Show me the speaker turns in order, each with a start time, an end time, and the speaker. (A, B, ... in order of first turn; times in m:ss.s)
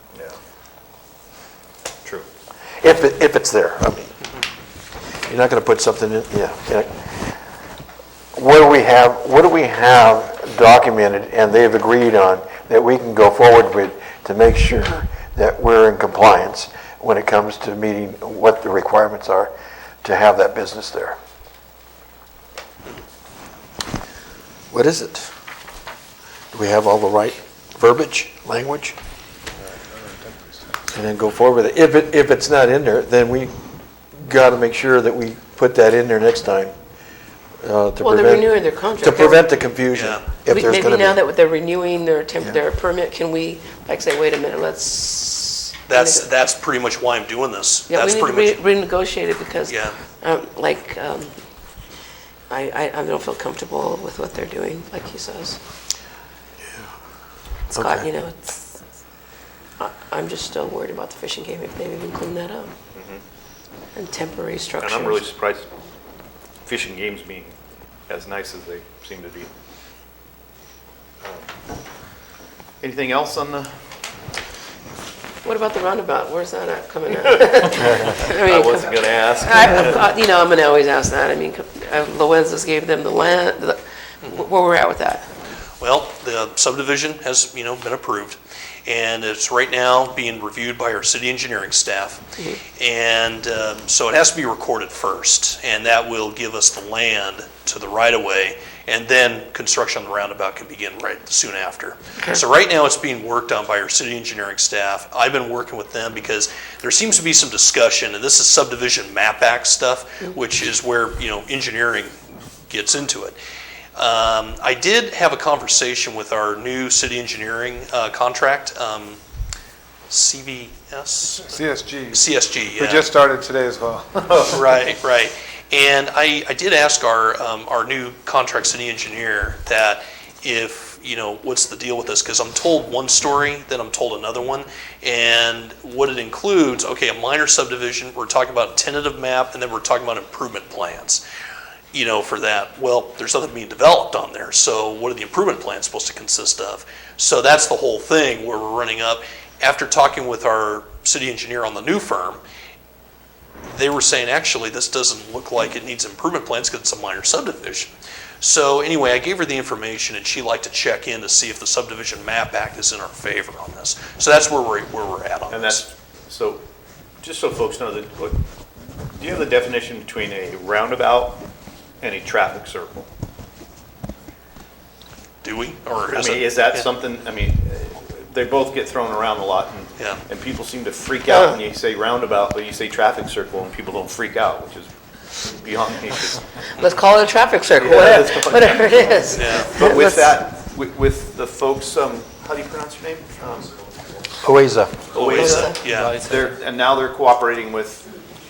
0:02.8-0:04.1 A
0:05.3-0:07.1 A
0:08.3-0:21.2 A
0:24.7-0:25.3 A
0:26.5-0:29.0 A
0:29.7-0:30.4 B
0:30.9-0:33.5 A
0:34.2-0:36.7 A
0:37.6-0:41.2 A
0:38.0-0:39.5 C
0:39.9-0:40.2 D
0:40.5-0:46.2 C
0:45.9-0:48.6 D
0:47.9-0:51.4 C
0:49.7-0:50.0 D
0:52.5-0:55.6 C
0:57.7-0:58.8 C
0:57.8-0:58.1 A
0:59.8-1:02.7 C
1:02.9-1:03.2 E
1:03.9-1:05.2 C
1:04.8-1:05.7 E
1:06.6-1:07.6 E
1:08.1-1:09.5 E
1:11.2-1:11.5 E
1:12.8-1:13.7 E
1:15.4-1:25.3 C
1:18.4-1:20.0 E
1:25.8-1:32.2 D
1:32.8-1:53.4 D
1:54.0-1:59.2 D
2:00.1-2:01.6 D
2:01.5-2:04.5 B
2:02.1-2:03.1 D
2:04.4-2:21.2 D
2:21.9-2:32.4 D
2:33.7-2:45.8 D
2:45.5-2:46.6 E
2:47.2-2:48.4 E
2:49.1-2:51.4 E
2:52.0-2:53.1 E
2:55.4-2:56.8 D
2:56.1-3:06.4 E
3:01.3-3:01.6 C
3:06.8-3:10.4 C
3:07.8-3:13.7 E
3:09.3-3:09.8 D
3:14.4-3:15.0 A
3:15.1-3:18.0 E
3:15.2-3:16.2 D
3:15.2-3:15.8 C
3:15.7-3:16.4 B